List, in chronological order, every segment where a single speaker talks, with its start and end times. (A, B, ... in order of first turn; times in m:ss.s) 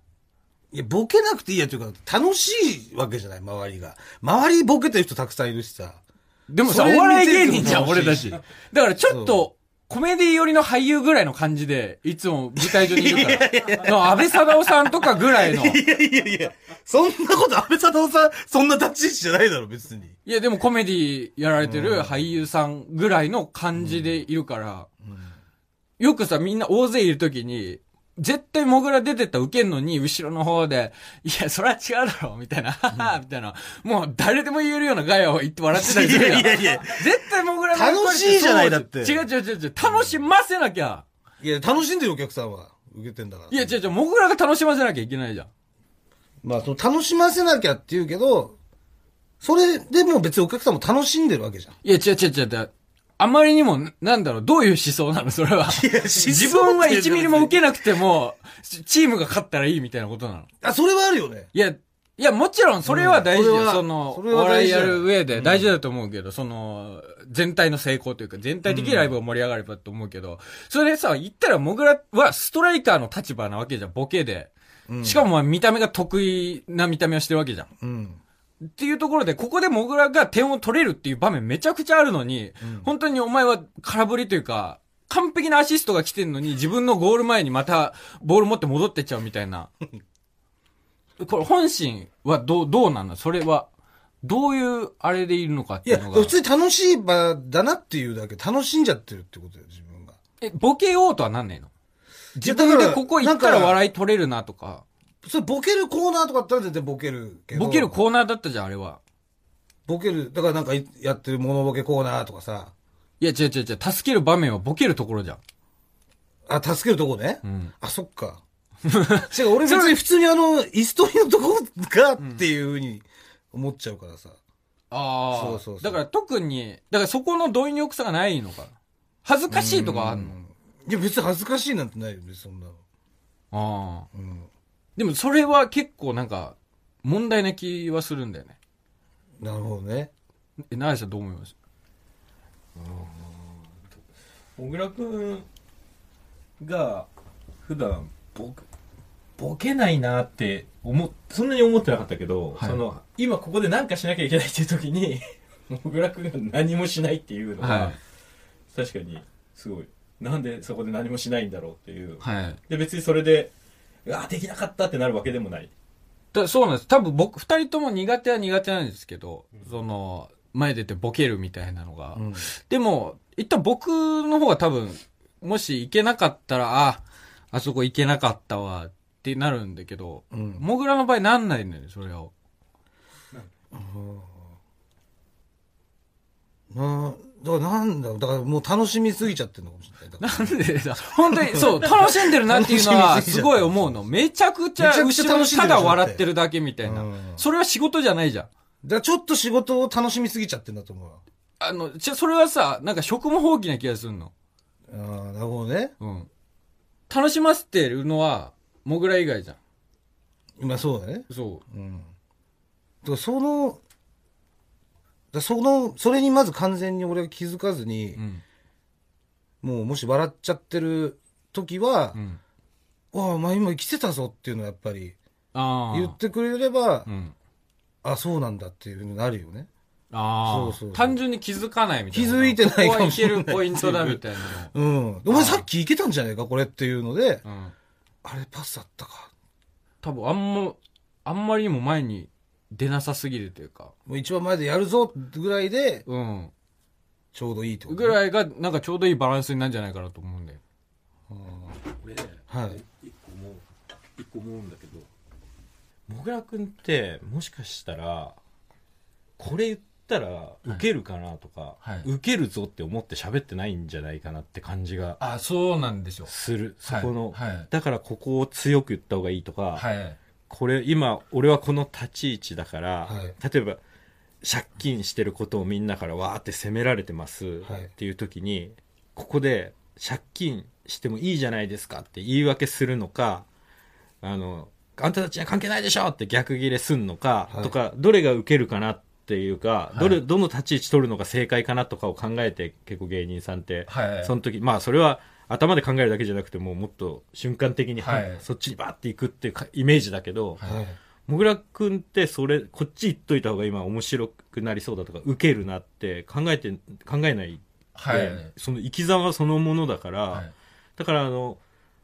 0:00.7-0:06.0 A
0:06.5-0:15.8 B
0:06.6-0:08.4 A
0:09.0-0:09.4 A
0:12.6-0:20.2 A
0:20.2-0:24.9 B
0:21.6-0:22.2 A
0:23.8-0:24.2 A
0:25.0-0:25.4 A
0:26.0-0:41.0 B
0:35.7-0:39.2 A
0:39.8-0:40.2 A
0:41.4-0:43.8 A
0:43.5-0:45.5 B
0:46.4-0:48.6 A
0:49.4-0:51.8 A
0:51.8-1:00.5 B
0:55.7-0:57.6 A
1:00.6-1:01.5 A
1:01.5-1:14.5 B
1:02.8-1:05.7 A
1:08.7-1:09.1 A
1:14.9-1:15.3 A
1:15.0-1:17.7 B
1:17.8-1:18.2 A
1:18.8-1:29.7 B
1:22.6-1:22.9 A
1:31.2-1:33.7 B
1:34.2-1:36.4 B
1:35.8-1:40.2 A
1:40.4-1:41.7 B
1:42.3-1:43.8 A
1:42.4-1:44.8 B
1:45.2-1:48.0 A
1:47.5-1:49.0 B
1:49.9-1:52.7 A
1:53.2-1:55.4 B
1:56.5-1:58.4 A
1:57.4-1:57.7 B
1:58.9-1:59.9 B
1:59.2-2:04.4 A
2:02.2-2:02.4 B
2:04.9-2:10.3 B
2:05.3-2:06.0 A
2:09.5-2:12.8 A
2:13.5-2:14.1 B
2:14.1-2:14.5 A
2:15.0-2:18.6 B
2:19.4-2:20.1 A
2:20.7-2:21.5 B
2:22.8-2:23.8 C
2:24.6-2:25.5 C
2:26.6-2:27.1 C
2:27.6-2:28.6 C
2:29.4-2:38.0 C
2:37.6-2:38.0 B
2:38.7-2:43.5 C
2:42.2-2:42.6 B
2:44.1-2:45.7 C
2:46.3-3:02.3 B
2:52.2-2:52.5 A
3:00.3-3:00.7 A
3:03.7-3:04.5 A
3:06.7-3:10.6 A
3:10.2-3:18.5 B
3:11.3-3:14.1 A
3:14.8-3:16.2 A
3:16.8-3:17.4 A
3:18.8-3:21.2 A
3:21.6-3:24.3 B
3:24.9-3:25.9 A
3:26.0-3:26.3 B
3:27.1-3:29.6 B
3:30.6-3:32.1 A
3:31.3-3:31.6 B
3:33.0-3:33.8 A
3:35.3-3:38.2 A
3:38.2-3:38.4 B
3:39.6-3:42.2 A
3:42.2-3:42.4 B
3:43.1-3:45.2 A
3:45.5-3:46.2 B
3:45.9-3:47.1 A
3:47.1-3:47.3 B
3:48.0-3:49.7 A
3:50.1-3:54.7 B
3:50.4-3:51.2 A
3:52.1-3:57.4 A
3:55.3-3:55.7 B
3:57.4-3:57.7 B
3:58.2-3:59.3 A
4:00.0-4:03.9 B
4:04.1-4:06.0 A
4:06.1-4:06.5 B
4:07.3-4:08.2 A
4:07.9-4:10.6 B
4:11.3-4:11.8 A
4:12.0-4:13.7 C
4:12.5-4:12.8 A
4:14.2-4:15.1 C
4:16.1-4:18.4 C
4:19.4-4:25.2 C
4:21.8-4:22.1 B
4:25.2-4:26.3 B
4:26.3-4:29.8 C
4:26.8-4:27.7 B
4:29.8-4:30.2 B
4:30.5-4:33.8 C
4:33.1-4:33.3 A
4:34.4-4:43.5 C
4:37.6-4:37.9 A
4:44.2-5:00.6 C
4:49.9-4:50.2 B
4:53.9-4:54.3 B
4:58.0-4:58.4 B
5:00.6-5:01.0 A
5:01.3-5:10.4 C
5:08.0-5:08.5 B
5:11.0-5:11.6 C